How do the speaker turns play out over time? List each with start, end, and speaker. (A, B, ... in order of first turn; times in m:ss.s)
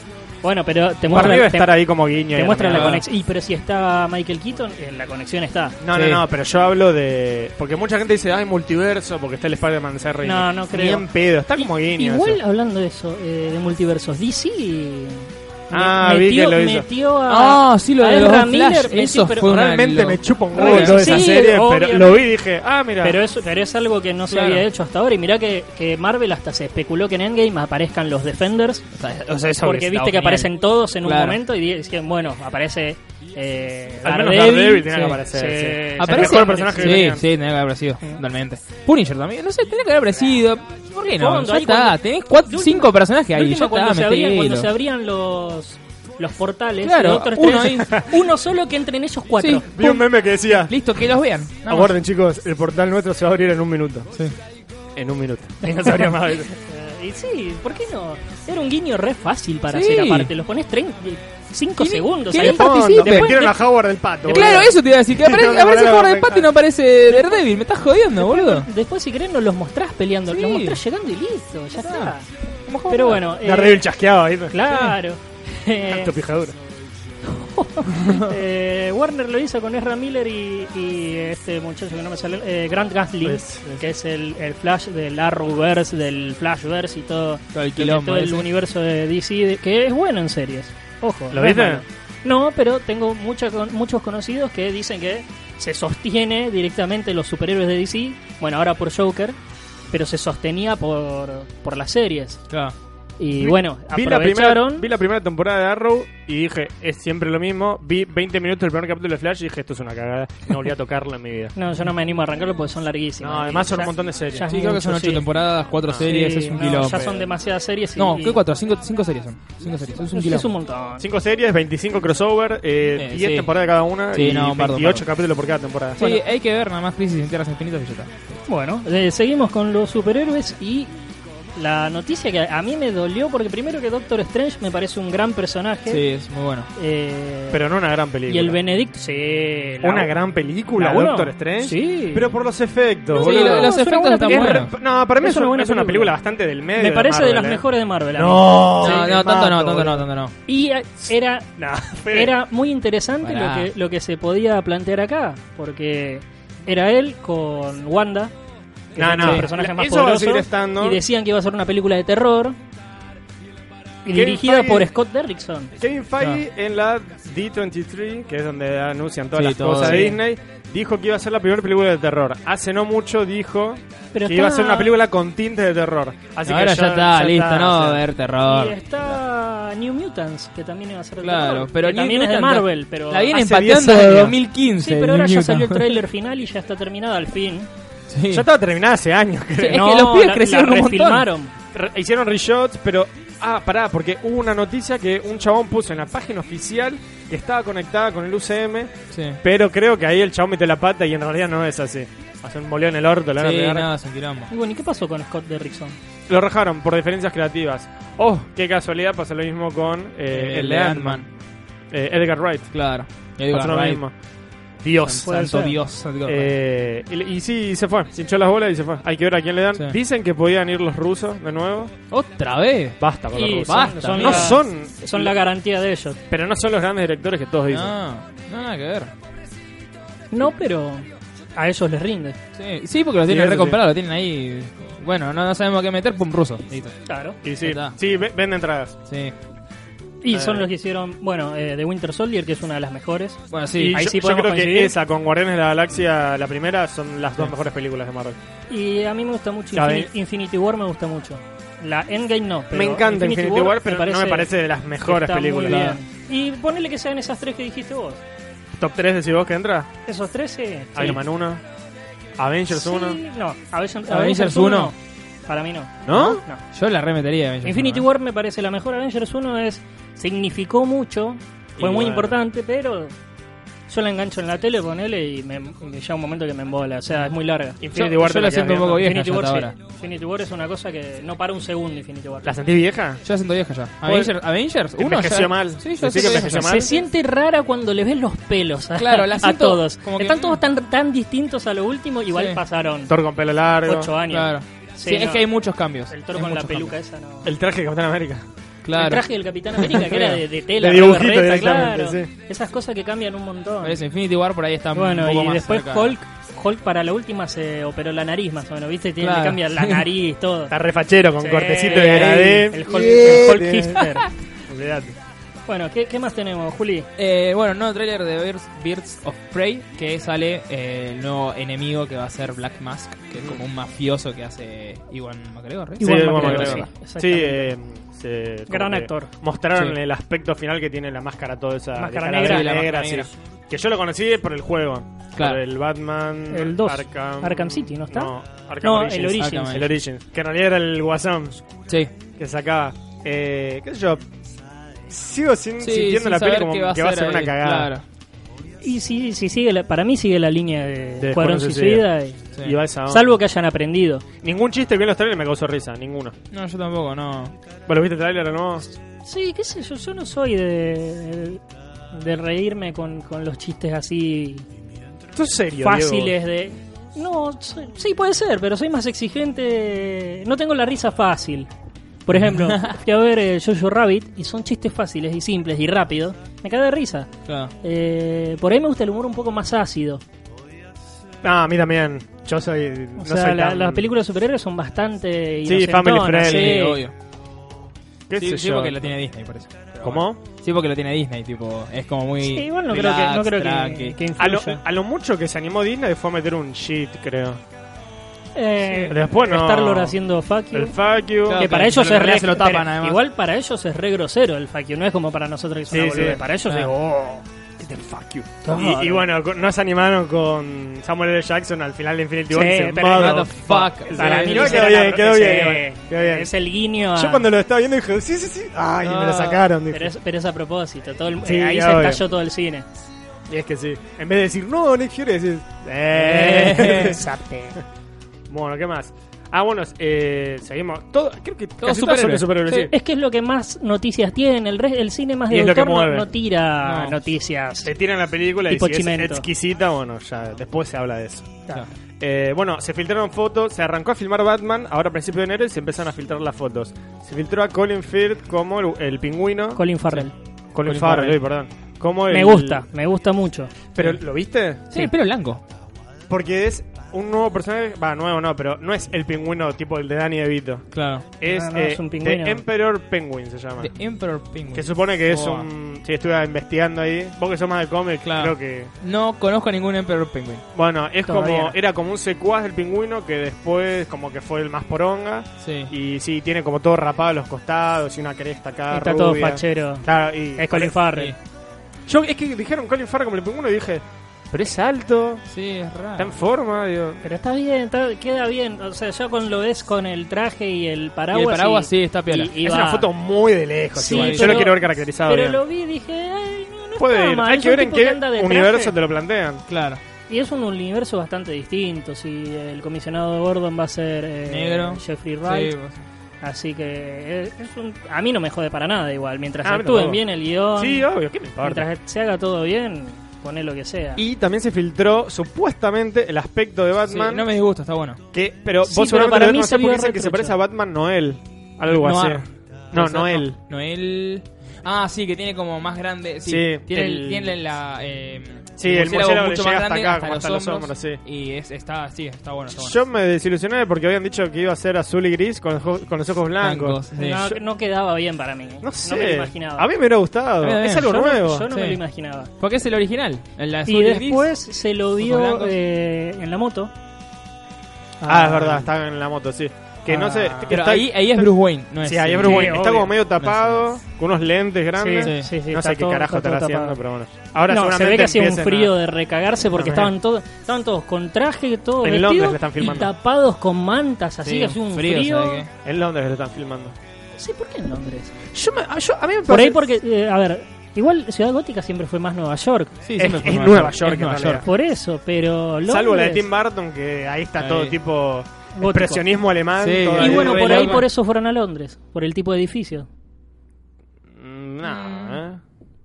0:00.4-0:01.8 A
0:01.1-0:03.0 B
0:02.3-0:05.8 A
0:02.7-0:03.0 C
0:05.8-0:12.4 B
0:05.9-0:06.2 C
0:10.2-0:19.5 A
0:15.7-0:16.9 B
0:17.3-0:21.2 C
0:19.4-0:23.2 B
0:20.5-0:22.3 A
0:23.0-0:28.8 A
0:24.3-0:24.6 C
0:28.9-0:31.4 C
0:29.6-0:37.0 A
0:34.0-0:37.2 B
0:34.9-0:35.2 C
0:36.0-0:44.7 C
0:41.0-0:49.7 A
0:46.8-0:48.1 C
0:49.4-0:52.0 C
0:49.7-0:50.8 B
0:51.7-0:54.1 B
0:55.0-0:56.5 B
0:56.5-1:03.6 A
0:59.7-1:00.3 C
1:01.8-1:03.5 C
1:02.3-1:06.5 B
1:04.3-1:08.7 C
1:07.1-1:07.4 A
1:08.2-1:12.3 A
1:10.3-1:10.8 C
1:11.8-1:12.1 C
1:12.7-1:13.2 C
1:12.9-1:13.8 A
1:13.3-1:14.6 B
1:14.5-1:16.1 A
1:15.9-1:16.6 B
1:17.2-1:39.4 A
1:23.2-1:23.8 B
1:27.5-1:28.5 C
1:31.3-1:31.8 B
1:39.9-1:42.4 A
1:42.5-1:42.8 C
1:43.2-1:44.9 A
1:43.4-1:51.5 B
1:51.6-1:55.2 A
1:53.2-1:55.2 B
1:54.5-1:57.0 C
1:55.8-1:56.1 B
1:56.0-1:58.4 A
1:56.7-1:57.3 B
1:58.0-2:00.5 C
2:00.1-2:01.1 A
2:01.0-2:06.2 B
2:03.0-2:03.5 C
2:04.1-2:05.1 C
2:06.0-2:08.2 C
2:08.5-2:10.9 A
2:11.6-2:16.1 A
2:15.9-2:16.7 C
2:16.8-2:17.6 A
2:17.5-2:18.6 B
2:18.3-2:20.1 A
2:19.8-2:23.7 B
2:20.8-2:22.3 A
2:23.1-2:26.1 A
2:23.2-2:24.7 C
2:24.2-2:30.1 B
2:26.8-2:29.1 A
2:28.8-2:30.3 C
2:30.4-2:31.5 A
2:31.6-2:32.4 B
2:32.1-2:38.3 A
2:33.2-2:33.7 C
2:38.9-2:41.0 B
2:38.9-2:42.6 A
2:44.0-2:45.7 A
2:44.1-2:44.9 B
2:45.8-2:58.1 B
2:49.4-2:50.1 C
2:49.8-2:50.2 A
2:54.1-2:54.9 A
2:56.4-2:58.8 C
2:58.4-3:03.3 A
3:01.2-3:06.0 C
3:03.3-3:04.4 B
3:04.8-3:07.7 A
3:08.1-3:08.4 C
3:08.3-3:09.9 B
3:09.6-3:11.5 A
3:09.6-3:11.3 C
3:11.7-3:23.9 B
3:19.1-3:19.4 C
3:23.4-3:24.5 C
3:24.5-3:26.0 A
3:26.3-3:31.3 B
3:30.3-3:31.2 C
3:31.9-3:32.8 B
3:32.7-3:34.0 C
3:33.5-3:34.1 B
3:34.8-3:35.3 B
3:35.0-3:36.5 C
3:35.2-3:35.8 A
3:36.2-3:41.9 B
3:42.1-3:43.0 C
3:43.0-3:45.4 B
3:43.3-3:46.2 A
3:43.6-3:44.6 C
3:46.3-3:47.9 B
3:47.7-3:49.1 C
3:50.3-3:52.4 A
3:52.6-3:57.0 C
3:53.3-3:53.8 B
3:57.1-3:57.4 A
3:57.4-3:59.0 B
3:57.6-3:58.0 C
3:59.1-3:59.3 C
4:00.2-4:03.4 A
4:00.3-4:00.7 B
4:03.5-4:04.0 C
4:03.7-4:08.4 B
4:03.9-4:04.9 A
4:08.7-4:14.5 A
4:09.7-4:10.1 B
4:12.7-4:16.0 B
4:15.0-4:18.2 A
4:15.6-4:16.0 C
4:18.7-4:19.9 B
4:20.1-4:21.2 A
4:20.9-4:21.6 B
4:22.4-4:23.2 B
4:22.7-4:25.0 A
4:24.1-4:24.9 C
4:25.5-4:26.6 A
4:26.0-4:26.4 B
4:26.7-4:28.0 C
4:27.6-4:33.1 A
4:31.8-4:32.4 B
4:33.9-4:38.2 A
4:37.8-4:39.1 B
4:38.0-4:39.7 C
4:38.9-4:42.6 A
4:42.4-4:43.2 B
4:43.2-4:46.7 C
4:44.0-4:44.3 B
4:45.0-4:47.0 B
4:46.2-4:53.1 A
4:49.0-4:50.6 C
4:52.3-4:52.6 C
4:53.1-4:54.1 B
4:53.8-4:55.5 A
4:54.3-4:56.9 C
4:56.1-4:57.5 A
4:57.4-4:58.4 B
4:58.8-4:59.2 C
4:58.9-5:04.0 A
4:59.9-5:00.4 C
5:00.8-5:02.3 B
5:03.8-5:06.1 C
5:04.9-5:10.7 A
5:09.2-5:10.1 C
5:10.7-5:14.1 B
5:11.4-5:14.3 A
5:12.0-5:14.2 C
5:14.7-5:15.2 B
5:15.7-5:17.1 A
5:17.2-5:26.9 C
5:26.0-5:27.7 A
5:26.0-5:41.6 B
5:28.7-5:29.3 A
5:31.9-5:32.7 A
5:32.4-5:33.3 C
5:35.4-5:35.6 C
5:36.5-5:39.8 A
5:39.4-5:39.9 C
5:41.9-5:42.1 C
5:42.4-5:44.2 B
5:45.1-5:47.9 B
5:45.8-5:48.0 C
5:48.8-5:52.4 A
5:51.2-5:52.1 B
5:52.6-5:53.3 B
5:53.1-5:54.2 A
5:54.4-5:56.3 B
5:56.5-5:57.5 C
5:57.9-5:58.9 B
5:59.2-6:01.6 A
6:02.1-6:04.7 A
6:05.3-6:06.3 B
6:05.8-6:11.7 A
6:12.3-6:17.3 A
6:12.5-6:12.9 C
6:17.4-6:17.7 C
6:17.8-6:20.2 A
6:21.4-6:24.1 B
6:23.2-6:27.0 A
6:25.6-6:26.8 B
6:26.4-6:27.1 C
6:28.3-6:29.0 B
6:28.4-6:34.2 C
6:30.0-6:30.4 B
6:32.4-6:34.8 A
6:34.4-6:37.6 B
6:38.6-6:40.9 A
6:38.9-6:40.2 B
6:40.7-6:41.7 B
6:41.5-6:43.2 C
6:41.5-6:47.4 A
6:45.9-6:46.4 B
6:47.8-6:56.5 B
6:48.6-6:49.3 A
6:52.5-6:57.5 A
6:53.1-6:54.7 C
6:57.2-7:00.1 B
6:59.0-6:59.6 C
6:59.9-7:02.8 A
7:01.4-7:02.2 B
7:03.5-7:07.2 B
7:06.2-7:07.8 A
7:06.3-7:07.2 C
7:08.5-7:12.9 B
7:11.8-7:12.5 C
7:12.7-7:17.9 A
7:15.5-7:16.3 B
7:16.8-7:17.2 C
7:17.8-7:21.6 B
7:18.7-7:19.5 A
7:22.2-7:29.8 B
7:29.8-7:30.3 A
7:30.7-7:32.8 B
7:30.8-7:31.4 C
7:32.3-7:33.7 A
7:33.9-7:34.9 B
7:34.9-7:35.6 C
7:36.3-7:43.9 B
7:40.9-7:41.2 C
7:41.4-7:42.6 A
7:43.8-7:45.7 C
7:44.7-7:48.9 B
7:48.2-7:50.6 C
7:50.7-8:00.9 B
7:51.3-7:51.8 A
7:55.6-7:55.9 C
7:58.9-8:01.3 A
8:02.1-8:05.4 B
8:05.5-8:06.4 C
8:06.2-8:07.2 B
8:07.2-8:13.1 A
8:11.3-8:12.5 C
8:12.6-8:15.6 B
8:13.9-8:19.0 A
8:14.0-8:14.7 C
8:17.0-8:19.6 B
8:19.7-8:20.0 C
8:20.3-8:25.8 A
8:24.5-8:26.0 C
8:26.4-8:34.2 A
8:29.6-8:30.2 B
8:30.8-8:31.9 B
8:34.2-8:37.5 B
8:37.1-8:38.2 C
8:38.3-8:43.6 B
8:38.8-8:40.6 A
8:41.9-8:53.0 C
8:46.4-8:47.6 B
8:48.8-8:51.2 B
8:52.7-8:57.6 B
8:56.6-8:57.4 C
8:57.1-8:59.9 A
8:58.8-9:01.7 B
9:00.6-9:01.1 C
9:00.9-9:02.5 A
9:01.7-9:02.0 C
9:02.6-9:04.5 C
9:03.9-9:06.9 A
9:05.2-9:05.8 C
9:08.2-9:08.9 A
9:08.2-9:19.0 B
9:10.1-9:13.9 C
9:12.4-9:13.1 A
9:15.0-9:17.0 A
9:15.2-9:15.5 C
9:17.7-9:25.6 A
9:19.7-9:20.1 B
9:22.0-9:23.1 B
9:24.4-9:25.7 C
9:25.8-9:27.0 B
9:27.4-9:28.4 A
9:28.5-9:29.8 B
9:29.5-9:33.0 A
9:33.0-9:34.6 C
9:33.2-9:34.7 B
9:34.6-9:36.4 A
9:35.8-9:41.0 B
9:37.6-9:38.0 C
9:38.8-9:39.3 A
9:39.8-9:41.1 C
9:40.2-9:43.1 A
9:44.3-9:45.6 B
9:44.8-9:45.4 C